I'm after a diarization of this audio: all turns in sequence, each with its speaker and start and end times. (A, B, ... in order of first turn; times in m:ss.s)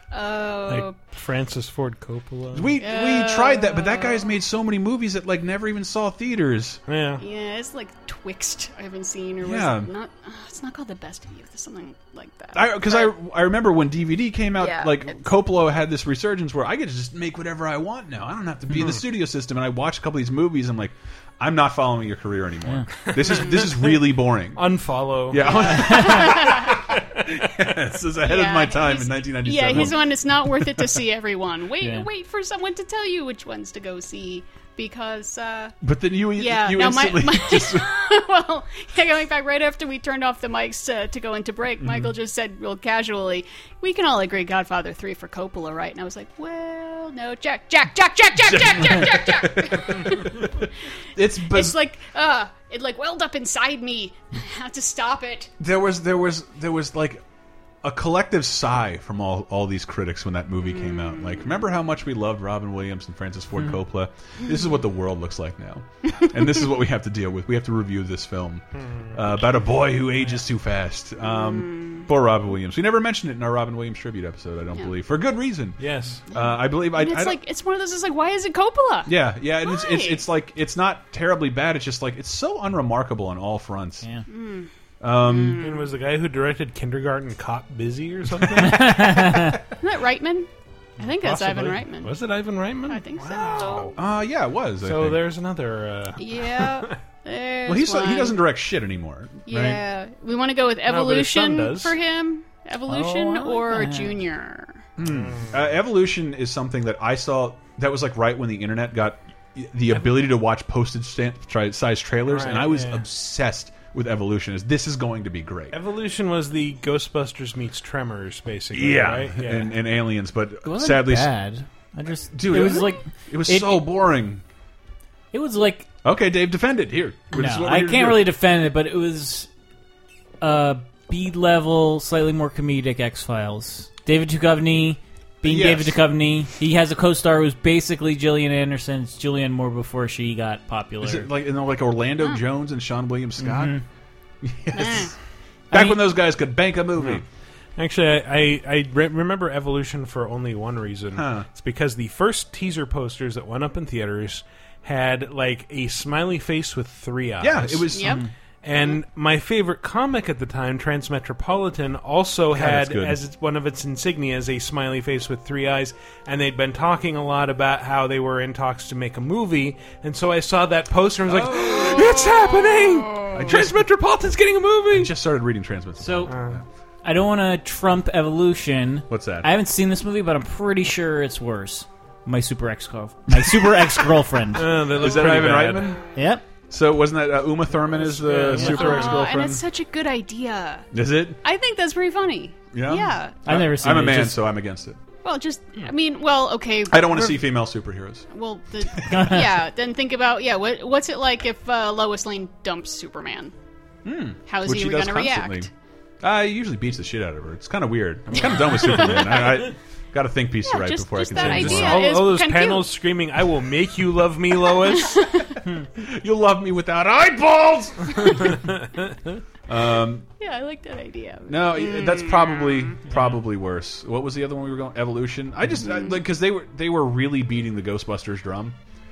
0:00.1-0:00.9 A
0:00.7-0:02.8 B
0:02.5-0:06.8 C
0:02.8-0:04.2 A
0:06.9-0:07.2 B
0:07.2-0:13.1 A
0:09.4-0:09.9 C
0:12.5-0:24.6 C
0:14.6-0:15.2 A
0:23.2-0:23.7 A
0:24.6-0:25.7 B
0:25.3-0:31.0 C
0:25.4-0:26.9 A
0:25.8-0:26.2 D
0:28.2-0:35.8 A
0:31.8-0:32.1 D
0:35.8-0:37.9 C
0:36.4-0:50.6 A
0:41.8-0:42.1 C
0:48.4-0:51.8 C
0:51.4-0:55.5 A
0:55.6-0:57.2 C
0:57.8-1:17.4 C
1:00.6-1:01.5 A
1:08.7-1:09.2 B
1:11.2-1:12.1 A
1:15.8-1:16.2 B
1:16.3-1:19.1 A
1:19.0-1:24.1 C
1:19.6-1:20.2 A
1:24.3-1:24.7 A
1:25.0-1:25.6 C
1:25.2-1:25.9 A
1:25.6-1:29.5 B
1:28.6-1:29.6 D
1:29.8-1:32.1 A
1:31.0-1:33.9 B
1:32.9-1:33.9 A
1:33.9-1:35.2 C
1:34.8-1:37.0 B
1:36.2-1:38.4 A
1:37.6-1:39.8 C
1:39.5-1:44.8 A
1:40.8-1:42.0 B
1:42.9-1:44.2 D
1:45.0-1:55.8 C
1:45.0-1:45.6 B
1:52.3-1:53.0 B
1:55.7-1:59.8 B
1:58.7-2:01.3 C
2:00.6-2:03.8 D
2:02.3-2:04.4 C
2:05.3-2:05.9 D
2:06.0-2:08.2 C
2:07.3-2:09.5 D
2:10.4-2:21.3 D
2:15.4-2:16.0 C
2:21.0-2:23.8 C
2:23.4-2:23.8 D
2:24.4-2:25.1 C
2:24.7-2:25.1 A
2:25.7-2:26.0 D
2:25.7-2:27.2 C
2:27.8-2:37.9 B
2:31.1-2:31.4 C
2:37.4-2:38.2 C
2:37.9-2:38.2 A
2:38.0-2:38.3 D
2:38.6-2:55.1 B
2:42.5-2:43.2 C
2:51.3-2:52.0 C
2:51.9-2:52.2 A
2:53.3-2:53.8 C
2:54.9-2:56.6 C
2:56.0-2:56.3 D
2:56.3-2:56.6 B
2:57.0-3:04.8 D
2:59.1-2:59.5 C
3:03.3-3:03.9 C
3:04.5-3:05.9 B
3:04.9-3:06.1 C
3:06.1-3:06.4 D
3:06.7-3:09.6 C
3:08.0-3:09.2 B
3:08.5-3:09.1 D
3:08.6-3:10.9 A
3:10.9-3:11.4 C
3:11.4-3:13.4 A
3:12.7-3:15.0 C
3:13.4-3:14.4 D
3:15.2-3:17.5 A
3:16.9-3:18.3 C
3:18.3-3:23.5 A
3:18.9-3:19.4 C
3:19.1-3:19.6 D
3:24.0-3:25.7 C
3:24.5-3:25.7 A
3:26.2-3:32.0 C
3:28.4-3:29.7 A
3:30.6-3:32.9 A
3:31.3-3:35.2 B
3:34.8-3:35.6 A
3:35.6-3:38.6 C
3:39.7-3:40.3 C
3:40.4-3:43.0 A
3:41.5-3:48.8 C
3:43.1-3:43.4 D
3:45.8-3:46.2 A